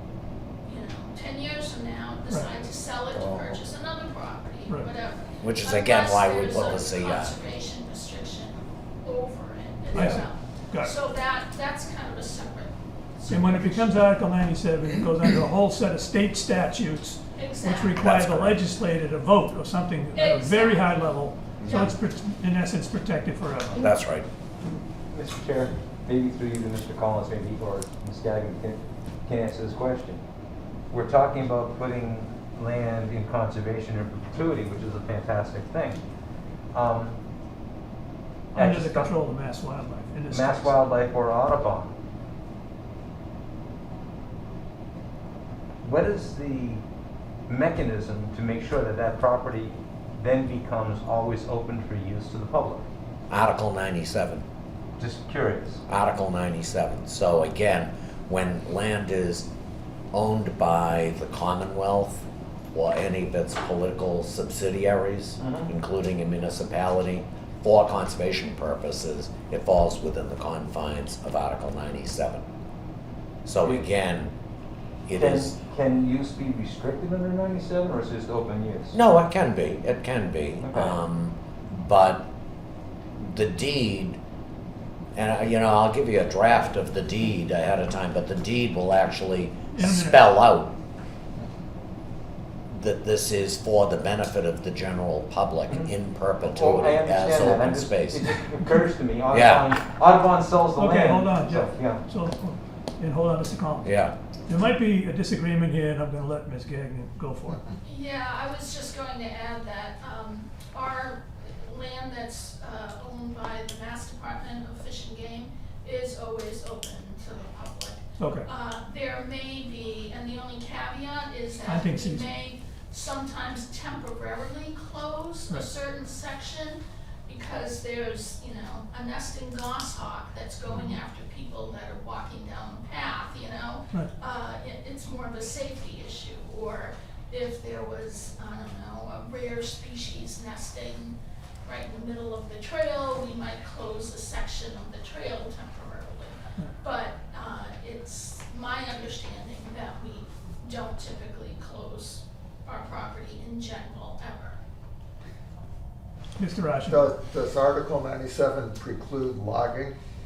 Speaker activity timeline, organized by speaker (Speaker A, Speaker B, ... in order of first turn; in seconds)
Speaker A: 0.6-13.9, 17.4-17.9, 20.1-21.9, 107.8-154.6
Speaker B: 3.1-3.6, 156.8-159.9
Speaker C: 5.4-7.3, 17.9-18.6, 23.8-24.3, 53.3-54.5, 55.9-59.5, 60.1-72.4, 73.5-74.3, 75.0-75.5, 78.9-82.3, 83.2-84.2, 85.2-90.7, 92.7-98.3, 99.3-99.8, 103.8-104.1
Speaker D: 9.9-10.9, 13.2-23.8, 38.5-40.8, 89.7-90.2, 100.8-103.9, 104.5-107.6, 118.2-118.5, 121.7-122.3, 156.4-157.1
Speaker E: 25.1-30.2, 30.9-36.0, 36.7-37.1, 38.5-39.2, 40.3-41.9, 45.8-46.8, 47.5-52.8, 55.0-55.8, 65.4-65.7, 75.2-79.0, 80.6-81.0, 96.5-102.0